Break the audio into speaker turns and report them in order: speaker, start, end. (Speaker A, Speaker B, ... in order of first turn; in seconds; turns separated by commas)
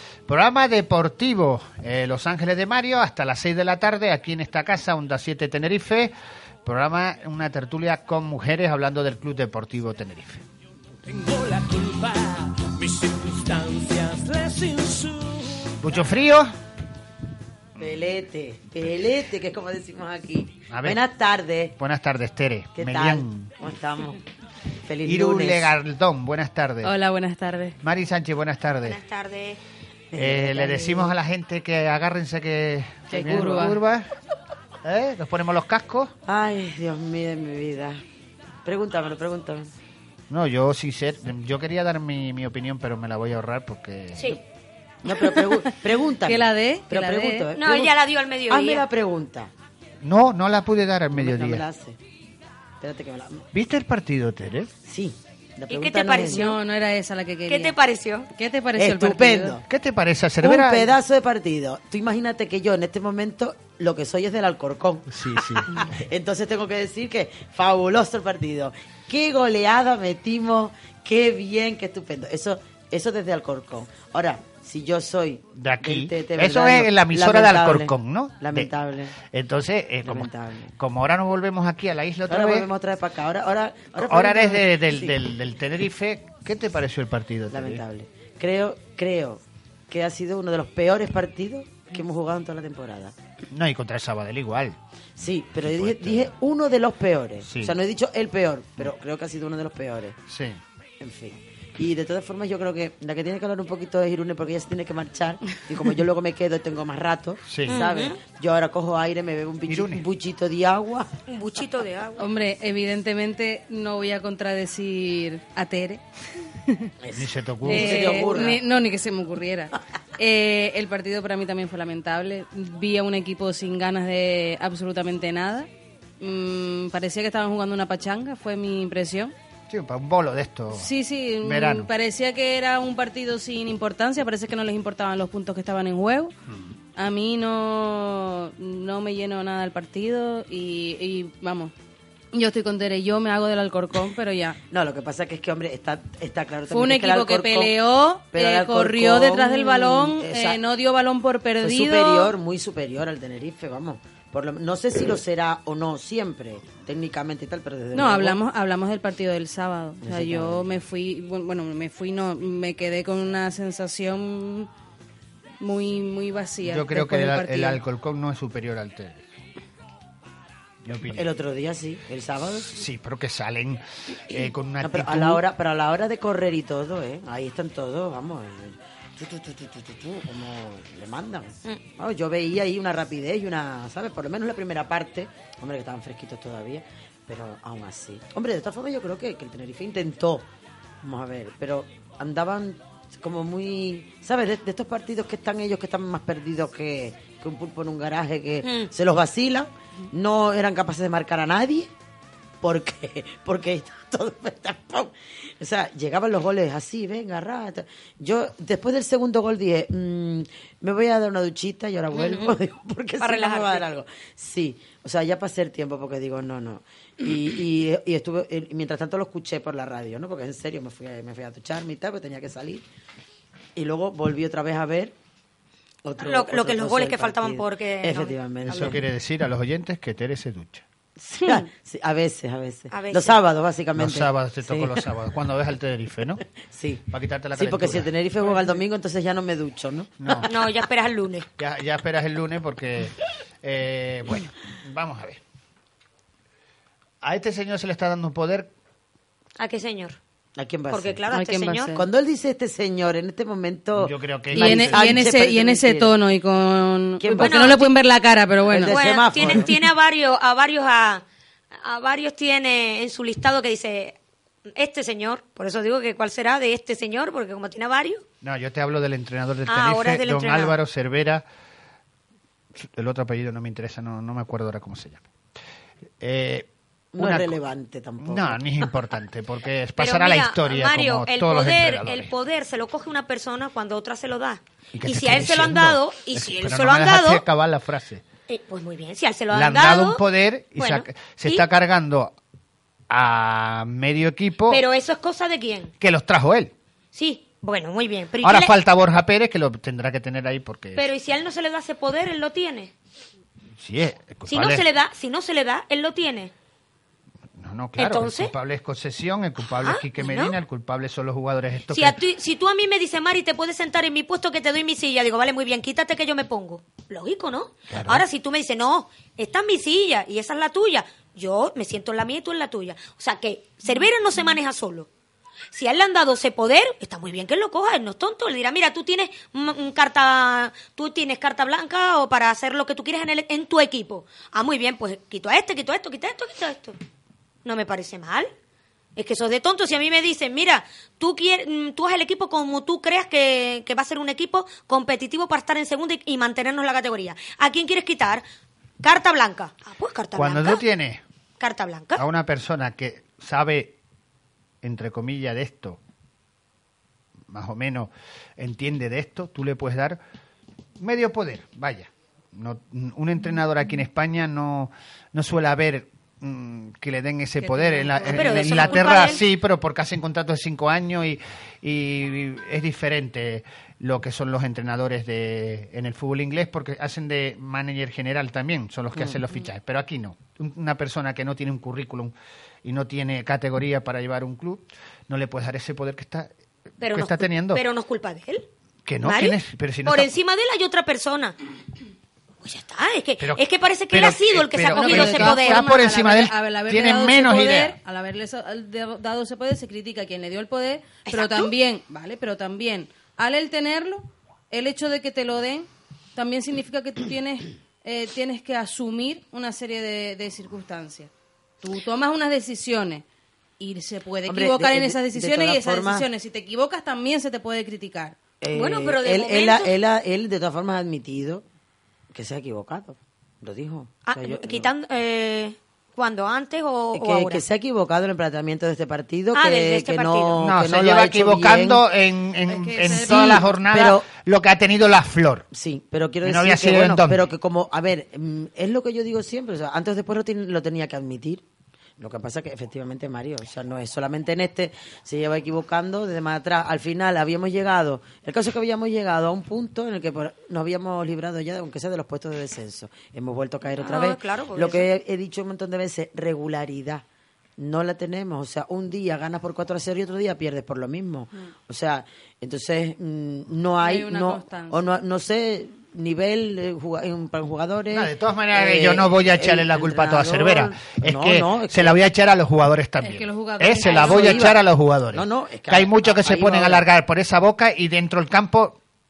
Speaker A: 0.3-6.1, Speaker A: 6.7-10.4, Speaker B: 11.1-15.8, Speaker A: 15.8-16.5, Speaker C: 17.8-21.8, Speaker A: 20.7-21.0, Speaker A: 21.8-23.5, Speaker C: 22.8-24.2, Speaker C: 24.8-25.7, Speaker A: 25.0-26.9, Speaker D: 26.8-27.8, Speaker A: 27.8-29.0, Speaker E: 28.8-29.6, Speaker C: 30.1-31.1, Speaker A: 30.1-34.1, Speaker D: 33.1-33.8, Speaker A: 34.8-36.1, Speaker C: 36.3-38.0, Speaker C: 38.6-39.7, Speaker A: 40.3-44.3, Speaker C: 45.0-49.5, Speaker D: 45.2-45.6, Speaker D: 46.2-47.5, Speaker E: 47.6-48.9, Speaker A: 50.0-51.6, Speaker C: 51.1-52.0, Speaker C: 52.8-53.5, Speaker A: 53.5-54.7, Speaker C: 54.9-56.5, Speaker E: 55.7-56.6, Speaker D: 56.3-57.8, Speaker E: 57.5-58.3, Speaker D: 58.4-59.6, Speaker C: 58.8-59.6, Speaker A: 59.7-61.0, Speaker C: 60.4-79.2, Speaker A: 65.1-65.8, Speaker A: 75.5-78.7, Speaker A: 79.2-82.7, Speaker C: 80.0-80.7, Speaker C: 82.3-85.2, Speaker A: 84.0-87.8, Speaker C: 87.5-93.1, Speaker A: 93.5-94.8, Speaker C: 95.2-100.2, Speaker A: 95.6-96.3, Speaker A: 97.4-97.8, Speaker A: 100.3-100.6, Speaker C: 101.0-111.1, Speaker A: 107.5-107.8, Speaker E: 107.7-108.2, Speaker A: 109.7-110.0, Speaker E: 111.3-112.2, Speaker D: 112.2-116.0, Speaker D: 116.6-116.9, Speaker C: 117.0-118.6, Speaker A: 117.2-118.2, Speaker D: 117.7-125.7, Speaker D: 126.2-129.3, Speaker A: 129.7-130.9, Speaker D: 130.7-136.3, Speaker A: 131.4-131.9, Speaker D: 137.0-141.7, Speaker D: 142.3-144.6, Speaker C: 144.7-147.8, Speaker D: 146.7-152.3, Speaker C: 148.3-150.6, Speaker C: 151.6-158.4, Speaker D: 157.9-164.7, Speaker C: 160.0-160.8, Speaker D: 165.6-167.8, Speaker A: 166.6-169.2, Speaker A: 170.8-171.3, Speaker C: 171.1-172.7, Speaker A: 172.7-175.4, Speaker C: 174.8-190.5, Speaker C: 191.0-201.9, Speaker E: 198.6-198.9, Speaker C: 202.6-222.8, Speaker E: 212.2-212.5, Speaker E: 213.2-213.9, Speaker C: 223.8-225.1, Speaker C: 226.1-229.0, Speaker E: 226.2-228.9, Speaker A: 228.7-230.8, Speaker C: 231.2-235.1, Speaker E: 232.9-233.4, Speaker A: 234.0-236.4, Speaker C: 236.7-237.1, Speaker A: 237.1-238.1, Speaker C: 237.6-240.5, Speaker A: 240.2-240.5, Speaker E: 240.4-241.5, Speaker A: 241.6-245.4, Speaker A: 247.2-248.7, Speaker E: 249.6-250.2, Speaker C: 250.6-251.2, Speaker E: 250.9-251.9, Speaker D: 251.3-252.1, Speaker C: 251.9-256.1, Speaker A: 253.9-255.1, Speaker D: 254.5-259.6, Speaker C: 257.2-257.8, Speaker E: 257.4-257.9, Speaker C: 258.7-259.8, Speaker E: 258.9-261.2, Speaker E: 261.8-264.2, Speaker E: 264.7-268.2, Speaker A: 268.4-271.4, Speaker E: 269.7-270.8, Speaker A: 272.8-275.2, Speaker A: 276.2-277.6, Speaker C: 277.1-278.6, Speaker A: 278.2-282.3, Speaker E: 280.0-287.4, Speaker A: 284.9-288.2, Speaker E: 288.5-290.2, Speaker A: 289.5-292.4, Speaker E: 290.8-291.7, Speaker A: 293.1-294.8, Speaker E: 294.7-295.9, Speaker A: 296.0-296.7, Speaker E: 297.1-298.8, Speaker A: 298.4-301.1, Speaker E: 300.9-302.9, Speaker A: 303.8-304.9, Speaker E: 304.5-306.5, Speaker A: 307.6-312.2, Speaker E: 308.0-308.5, Speaker E: 309.8-310.6, Speaker E: 311.9-325.1, Speaker A: 317.9-318.2, Speaker E: 325.7-337.0, Speaker E: 337.6-338.5, Speaker E: 339.2-348.4, Speaker E: 349.0-350.8, Speaker A: 350.4-351.2, Speaker E: 351.6-352.2, Speaker A: 352.2-353.9, Speaker A: 354.8-356.0, Speaker A: 357.5-360.2, Speaker A: 361.0-386.5, Speaker D: 367.6-369.2, Speaker E: 368.3-369.4, Speaker E: 387.0-388.7, Speaker A: 387.1-387.8, Speaker A: 389.1-390.4, Speaker E: 389.2-391.6, Speaker E: 392.6-395.9, Speaker A: 393.4-398.0, Speaker D: 394.9-411.3, Speaker E: 401.3-401.7, Speaker D: 411.8-413.2, Speaker D: 413.8-418.4, Speaker C: 414.5-416.3, Speaker C: 418.6-421.6, Speaker E: 418.7-419.9, Speaker C: 422.3-424.9, Speaker E: 424.3-427.6, Speaker C: 427.1-432.0, Speaker E: 429.5-430.6, Speaker A: 430.6-435.7, Speaker D: 432.7-433.7, Speaker C: 433.1-434.3, Speaker C: 435.7-441.6, Speaker A: 436.4-437.5, Speaker C: 442.2-457.2, Speaker E: 453.9-455.1, Speaker C: 457.8-472.2, Speaker D: 464.0-465.0, Speaker A: 468.1-479.0, Speaker D: 473.2-474.7, Speaker C: 474.0-474.8, Speaker C: 475.3-477.0